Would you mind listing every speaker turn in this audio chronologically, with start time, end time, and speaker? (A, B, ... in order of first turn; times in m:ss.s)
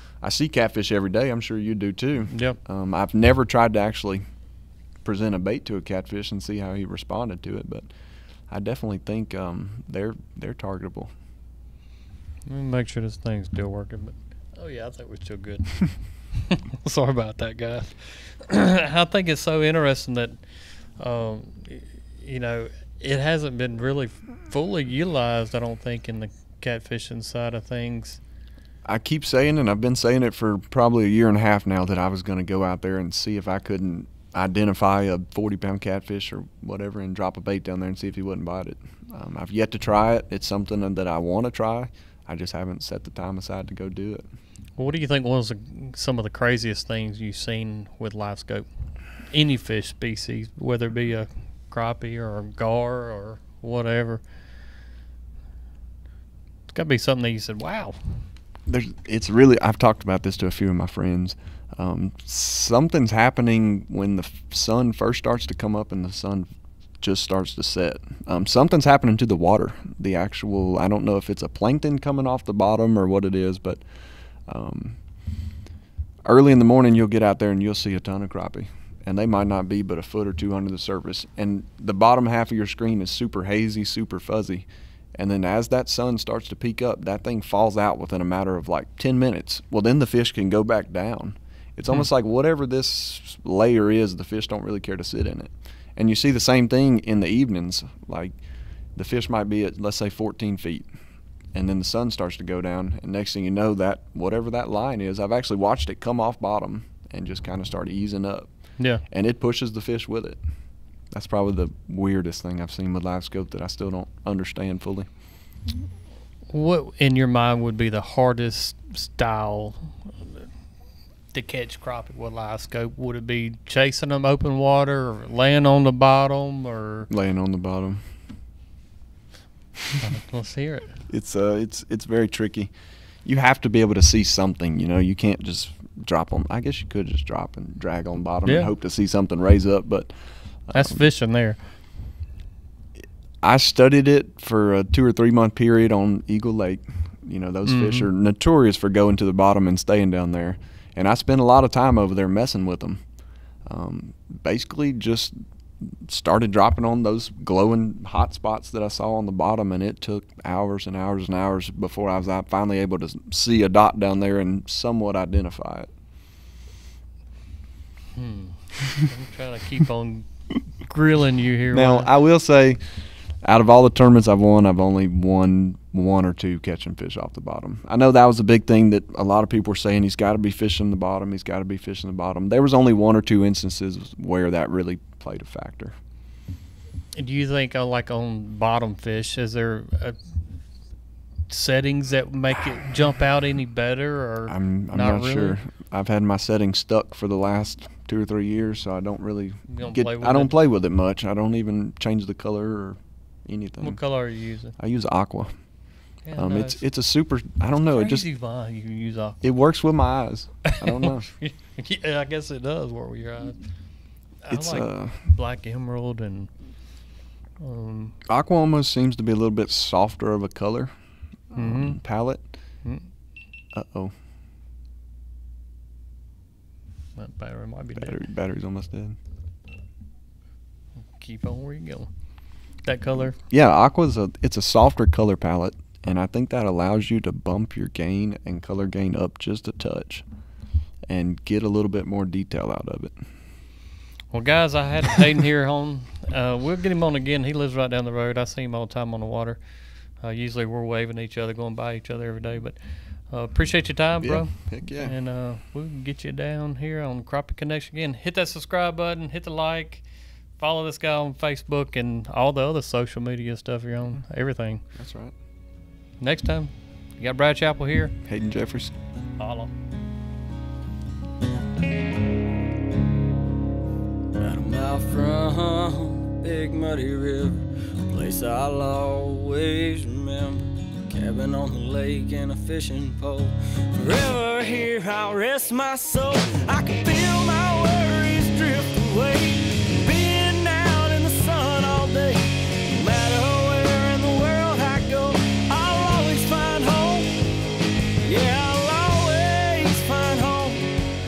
0:00.2-0:04.2 A
0:02.3-0:02.6 B
0:05.0-0:07.9 A
0:08.5-0:11.1 A
0:12.4-0:20.4 B
0:21.0-0:28.2 B
0:28.8-0:44.2 A
0:44.8-0:48.7 B
0:49.3-0:54.2 B
0:56.7-0:58.0 B
0:58.7-1:06.5 A
1:07.0-1:13.8 A
1:14.5-1:15.0 A
1:16.3-1:38.4 A
1:39.0-1:40.9 A
1:41.5-1:48.5 A
1:49.1-1:50.4 A
1:51.1-1:55.1 A
1:56.5-2:00.5 B
2:01.3-2:07.1 B
2:07.1-2:08.0 A
2:10.0-2:11.0 B
2:11.1-2:12.7 A
2:13.2-2:20.1 A
2:18.4-2:18.7 B
2:20.7-2:21.0 A
2:20.7-2:21.6 B
2:23.4-2:33.0 A
2:27.6-2:28.1 B
2:33.6-2:45.9 A
2:48.2-2:50.3 B
2:50.8-2:52.1 B
2:51.7-2:52.8 A
2:53.4-3:06.0 A
3:07.1-3:10.2 B
3:11.5-3:15.6 B
3:14.5-3:24.0 A
3:19.7-3:20.6 B
3:23.8-3:24.7 B
3:24.8-3:25.5 A
3:26.2-3:26.8 B
3:26.3-3:28.2 A
3:27.8-3:29.4 B
3:29.4-3:31.2 A
3:30.6-3:33.6 B
3:34.4-3:36.5 B
3:34.5-3:35.2 A
3:37.6-3:38.1 B
3:38.2-3:40.9 A
3:41.5-3:42.4 A
3:41.5-3:42.0 B
3:43.7-3:44.1 A
3:47.2-3:48.2 B
3:48.0-3:49.2 A
3:51.2-3:52.1 B
3:52.8-3:53.4 B
3:53.4-4:00.2 A
4:01.1-4:03.1 A
4:04.3-4:09.6 B
4:10.2-4:12.8 B
4:13.3-4:20.0 B
4:14.2-4:15.1 A
4:20.6-4:24.8 B
4:24.9-4:25.3 A
4:26.2-4:28.1 B
4:28.3-4:28.9 A
4:29.4-4:29.7 B
4:34.4-4:57.4 C
4:58.2-5:00.9 C